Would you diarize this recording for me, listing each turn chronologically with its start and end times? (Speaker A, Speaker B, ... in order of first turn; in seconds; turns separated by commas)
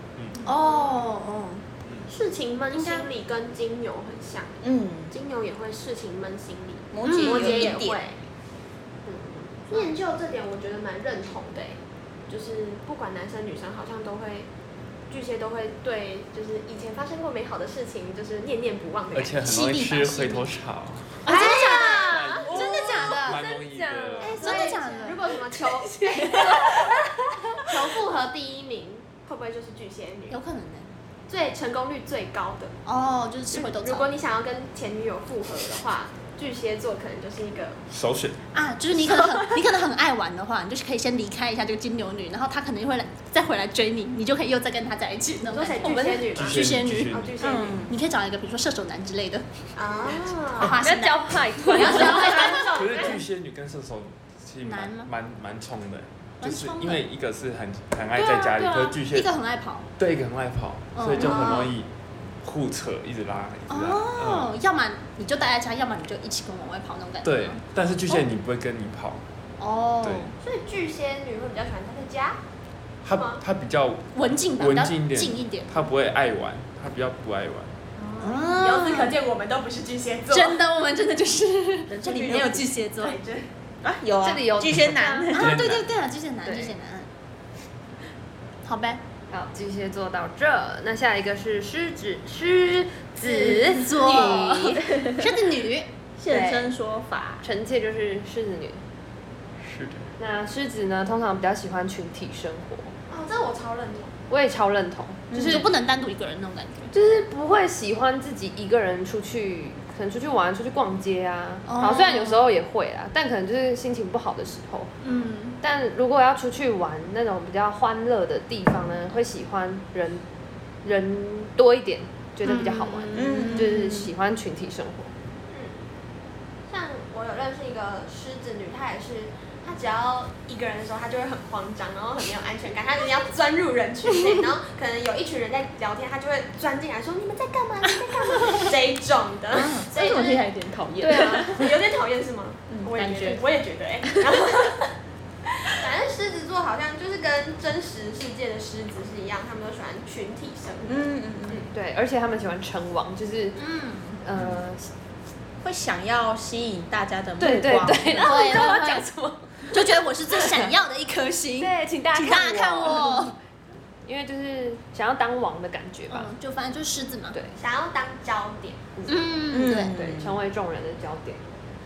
Speaker A: 0.1-0.4, Speaker B: 0.4-1.6, Speaker C: 2.1-8.2, Speaker B: 2.7-3.0, Speaker D: 4.6-5.1, Speaker D: 6.9-8.0, Speaker B: 7.0-7.8, Speaker E: 9.0-9.7, Speaker C: 9.7-14.5, Speaker C: 15.1-19.5, Speaker A: 19.1-21.3, Speaker B: 19.4-20.4, Speaker B: 21.2-23.4, Speaker E: 21.2-24.9, Speaker C: 21.3-22.9, Speaker A: 22.0-24.5, Speaker C: 24.2-26.9, Speaker B: 24.2-25.4, Speaker D: 26.2-26.5, Speaker E: 26.3-27.1, Speaker C: 27.6-30.4, Speaker B: 30.3-30.9, Speaker C: 31.3-32.8, Speaker B: 32.9-34.1, Speaker C: 33.5-37.8, Speaker A: 37.9-38.4, Speaker B: 38.5-47.2, Speaker C: 45.4-47.9, Speaker A: 46.3-47.3, Speaker D: 47.4-47.9, Speaker B: 47.9-49.4, Speaker C: 49.8-50.8, Speaker B: 50.5-52.7, Speaker E: 50.7-52.7, Speaker C: 51.7-53.2, Speaker A: 52.7-59.3, Speaker B: 54.6-55.1, Speaker B: 56.4-57.0, Speaker B: 58.1-59.9, Speaker A: 60.0-61.9, Speaker B: 60.9-61.7, Speaker C: 61.2-61.7, Speaker A: 62.4-64.5, Speaker B: 63.7-68.2, Speaker A: 67.2-69.2, Speaker B: 69.6-70.3, Speaker A: 70.0-70.3, Speaker C: 70.4-72.4, Speaker A: 73.0-77.7, Speaker C: 73.1-73.4, Speaker B: 74.1-75.8, Speaker C: 78.0-80.6, Speaker B: 78.2-79.2, Speaker B: 80.3-83.2, Speaker C: 81.9-83.5, Speaker D: 82.1-82.6, Speaker D: 83.8-85.6, Speaker E: 84.2-85.3, Speaker B: 85.3-87.1, Speaker A: 85.3-85.9, Speaker E: 86.4-86.7, Speaker B: 88.6-89.0, Speaker E: 89.3-94.8, Speaker D: 93.2-95.3, Speaker B: 93.5-95.9, Speaker D: 96.2-97.4, Speaker E: 96.3-96.7, Speaker E: 97.4-98.8, Speaker A: 99.6-100.1, Speaker E: 100.2-102.9, Speaker C: 103.1-104.1, Speaker E: 104.3-105.7, Speaker D: 105.3-105.7, Speaker B: 105.3-106.9, Speaker E: 106.9-114.9, Speaker B: 111.7-112.5, Speaker B: 115.0-115.6, Speaker E: 115.6-120.2, Speaker E: 120.8-125.1, Speaker B: 122.4-123.9, Speaker D: 123.1-124.0, Speaker C: 125.5-125.8, Speaker C: 126.7-140.4, Speaker D: 139.5-141.8, Speaker E: 141.0-141.6, Speaker C: 141.2-144.9, Speaker D: 142.7-143.4, Speaker D: 144.0-144.4, Speaker C: 145.7-151.6, Speaker D: 150.8-151.6, Speaker E: 151.7-153.6, Speaker B: 153.6-154.2, Speaker E: 154.2-154.9, Speaker D: 155.6-158.3, Speaker E: 157.4-159.8, Speaker B: 158.2-159.1, Speaker B: 159.7-163.3, Speaker E: 160.3-160.7, Speaker E: 161.6-163.3, Speaker E: 164.1-166.3, Speaker B: 166.1-167.4, Speaker E: 167.3-167.6, Speaker C: 167.6-168.9, Speaker E: 169.0-171.4, Speaker B: 169.1-170.0, Speaker D: 169.5-170.4